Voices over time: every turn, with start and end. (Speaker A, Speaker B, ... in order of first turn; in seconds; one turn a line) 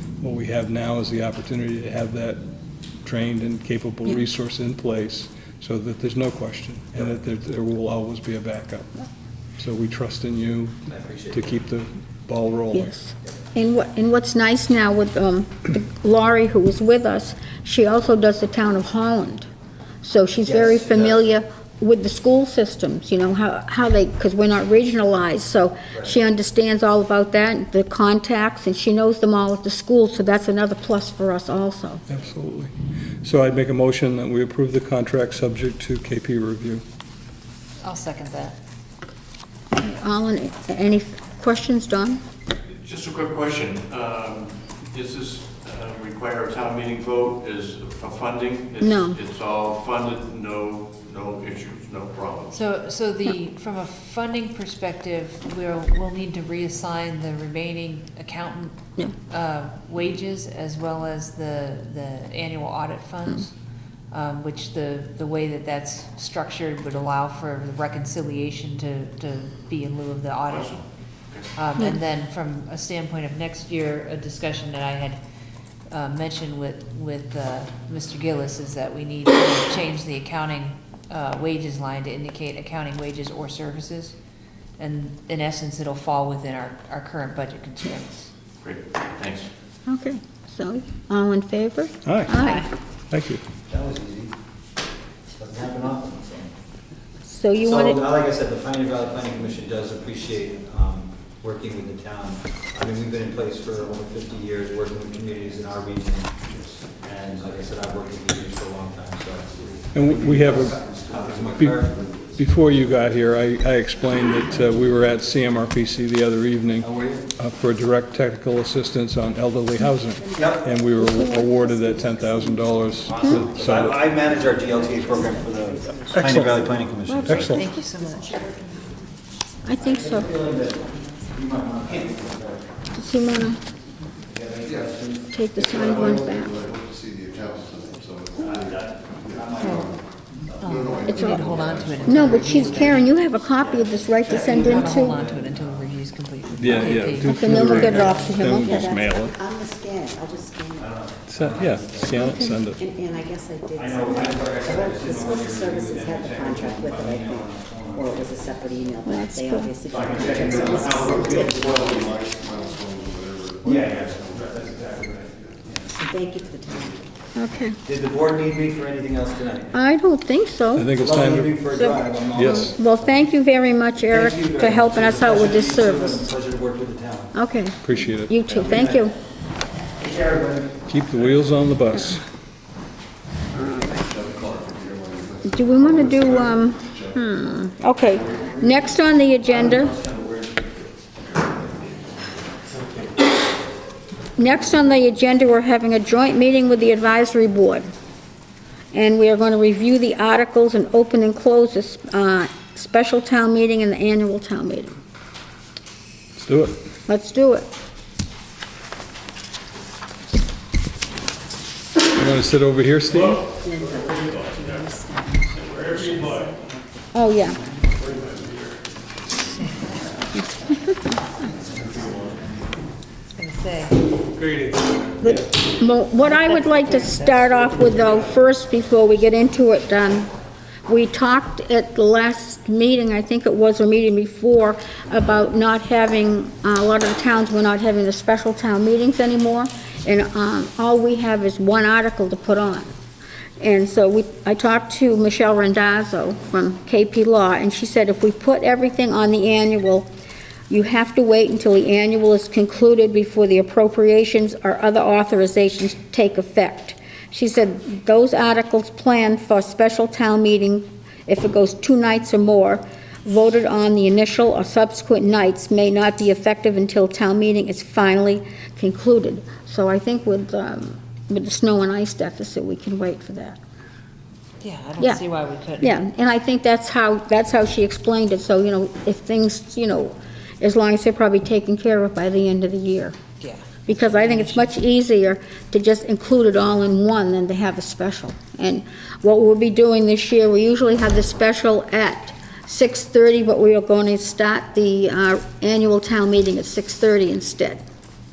Speaker A: 0.2-2.4
Speaker A: 3.0-8.9
Speaker A: 9.6-12.9
Speaker B: 10.9-11.5
Speaker C: 12.7-19.5
Speaker C: 20.0-32.0
Speaker B: 20.4-21.2
Speaker B: 25.9-26.2
Speaker A: 32.1-32.7
Speaker A: 33.2-36.8
Speaker D: 37.8-38.6
Speaker C: 39.8-42.2
Speaker E: 42.8-52.5
Speaker C: 48.8-49.2
Speaker D: 52.5-58.8
Speaker D: 59.3-63.5
Speaker D: 64.1-70.8
Speaker E: 70.5-71.5
Speaker D: 71.5-75.2
Speaker D: 75.9-84.2
Speaker D: 84.8-88.3
Speaker E: 88.6-89.5
Speaker C: 89.9-92.7
Speaker A: 92.0-92.4
Speaker A: 93.1-93.4
Speaker B: 93.7-94.3
Speaker B: 95.3-96.5
Speaker C: 97.3-98.0
Speaker B: 97.6-112.3
Speaker A: 109.9-110.8
Speaker E: 110.2-110.7
Speaker F: 110.6-111.5
Speaker A: 111.6-111.8
Speaker A: 112.4-124.1
Speaker E: 114.3-115.0
Speaker B: 116.8-117.3
Speaker G: 120.1-122.9
Speaker B: 120.3-120.8
Speaker B: 123.0-127.6
Speaker G: 123.9-126.9
Speaker A: 126.1-126.7
Speaker C: 127.1-127.7
Speaker A: 127.2-127.7
Speaker D: 127.4-128.4
Speaker G: 127.9-129.1
Speaker C: 129.6-130.3
Speaker G: 129.7-132.3
Speaker B: 129.9-132.7
Speaker C: 132.9-133.6
Speaker B: 134.3-136.1
Speaker F: 134.6-135.0
Speaker C: 135.3-136.6
Speaker F: 135.7-140.1
Speaker B: 138.4-139.9
Speaker D: 139.6-139.9
Speaker B: 140.4-140.9
Speaker D: 140.6-143.1
Speaker F: 140.7-142.7
Speaker C: 141.1-145.2
Speaker B: 141.4-141.9
Speaker B: 143.5-147.3
Speaker D: 144.3-148.5
Speaker A: 146.6-149.4
Speaker C: 147.2-148.9
Speaker G: 147.8-150.9
Speaker B: 150.8-152.3
Speaker A: 151.3-152.9
Speaker G: 152.0-162.1
Speaker C: 152.2-152.7
Speaker B: 153.7-159.1
Speaker C: 159.0-159.8
Speaker B: 159.8-162.1
Speaker E: 160.3-160.5
Speaker F: 160.3-165.6
Speaker C: 160.5-161.0
Speaker B: 163.6-166.0
Speaker G: 165.9-167.0
Speaker C: 167.3-167.8
Speaker B: 167.8-169.7
Speaker C: 169.7-171.0
Speaker A: 170.8-171.6
Speaker B: 170.9-173.2
Speaker C: 171.7-176.3
Speaker A: 172.3-172.7
Speaker B: 174.1-177.3
Speaker C: 177.3-179.1
Speaker A: 177.8-178.4
Speaker B: 178.5-179.1
Speaker B: 180.0-180.8
Speaker A: 180.9-182.2
Speaker F: 183.6-187.6
Speaker C: 185.4-190.0
Speaker F: 188.1-188.5
Speaker B: 189.6-190.4
Speaker C: 194.4-197.9
Speaker C: 198.9-205.0
Speaker A: 206.4-206.8
Speaker C: 207.1-207.7
Speaker A: 212.1-213.4
Speaker E: 213.1-216.6
Speaker G: 213.6-218.4
Speaker C: 217.1-217.6
Speaker E: 218.0-218.8
Speaker D: 219.4-220.2
Speaker G: 221.5-222.2
Speaker E: 221.8-222.4
Speaker D: 223.3-224.0
Speaker E: 224.6-224.9
Speaker C: 225.2-230.3
Speaker C: 230.9-242.9
Speaker C: 243.6-250.1
Speaker C: 250.7-273.6
Speaker D: 274.6-276.0
Speaker C: 275.0-275.2
Speaker C: 275.8-283.2
Speaker D: 283.4-284.7
Speaker C: 283.9-297.8